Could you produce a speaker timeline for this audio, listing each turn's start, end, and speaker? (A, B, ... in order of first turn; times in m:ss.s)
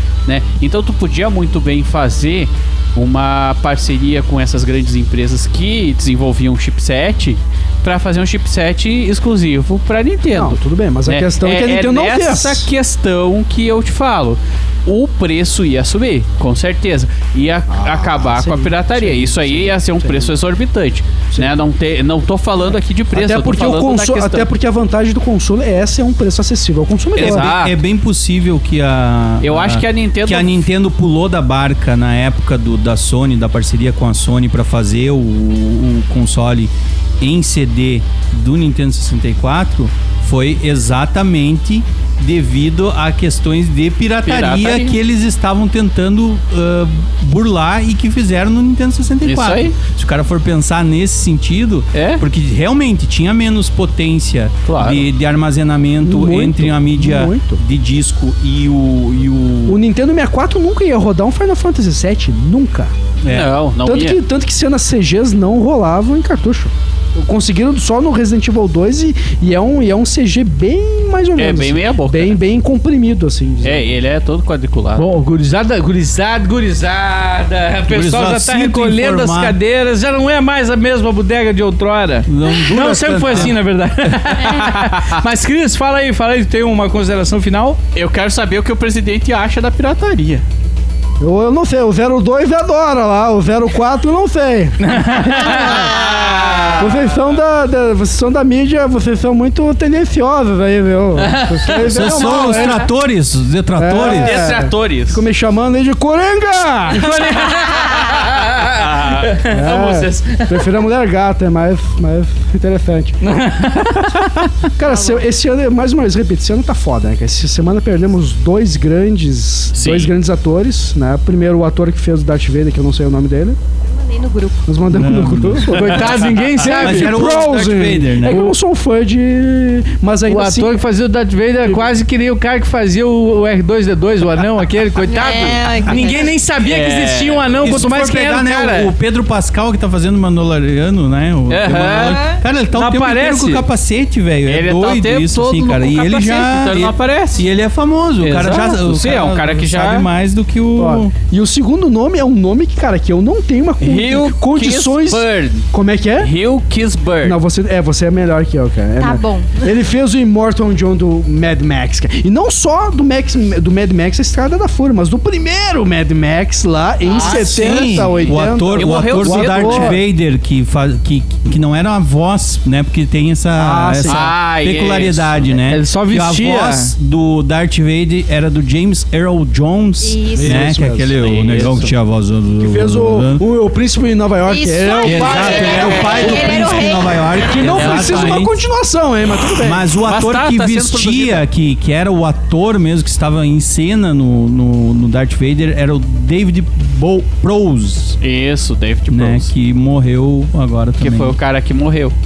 0:00.3-0:24.5 A
0:10.3-0:12.7 B
0:17.7-0:20.4 B
0:23.1-0:27.5 B
0:27.2-0:59.8 C
0:27.2-0:27.8 A
0:29.4-0:30.7 A
0:44.3-0:45.0 A
0:49.2-0:49.8 A
0:51.9-0:52.2 A
0:54.7-0:55.1 A
0:56.0-0:57.6 B
0:59.7-1:02.9 B
1:03.2-1:03.5 C
1:03.3-1:04.2 A
1:03.8-1:13.9 B
1:11.4-1:12.4 A
1:13.6-1:15.0 A
1:15.0-1:27.8 D
1:17.9-1:19.6 C
1:22.3-1:23.6 C
1:28.0-1:30.4 A
1:31.2-1:36.0 B
1:34.8-1:35.8 D
1:35.6-1:37.1 A
1:36.8-1:42.9 B
1:41.2-1:42.6 D
1:41.8-1:44.4 C
1:43.8-1:47.3 B
1:44.0-1:45.2 A
1:47.0-1:50.4 A
1:47.1-1:49.5 D
1:49.5-1:53.2 B
1:53.2-1:54.5 D
1:54.8-2:03.6 B
1:54.9-1:55.2 E
1:59.7-2:00.1 A
2:03.9-2:04.6 E
2:04.6-2:10.8 B
2:04.9-2:08.5 C
2:05.7-2:07.5 D
2:08.3-2:08.5 D
2:10.3-2:18.9 D
2:15.0-2:16.4 E
2:16.6-2:17.5 A
2:17.6-2:31.1 C
2:21.5-2:23.6 D
2:21.6-2:22.3 A
2:24.5-2:27.5 A
2:28.2-2:30.1 A
2:30.8-2:36.3 B
2:33.8-2:35.7 A
2:36.2-2:37.4 A
2:37.2-2:50.0 B
2:39.0-2:39.7 E
2:47.2-2:48.0 D
2:47.2-2:47.6 A
2:47.5-3:03.4 C
2:48.7-2:50.0 A
2:53.6-2:54.3 B
2:54.1-2:55.5 A
2:55.7-2:56.9 D
3:00.0-3:00.6 E
3:00.4-3:01.7 B
3:01.2-3:01.9 A
3:02.6-3:06.8 B
3:04.4-3:07.7 E
3:05.0-3:08.6 C
3:07.5-3:09.9 B
3:07.6-3:08.4 A
3:09.6-3:18.2 C
3:10.0-3:11.4 A
3:18.2-3:19.5 A
3:19.1-3:21.4 C
3:21.0-3:22.2 A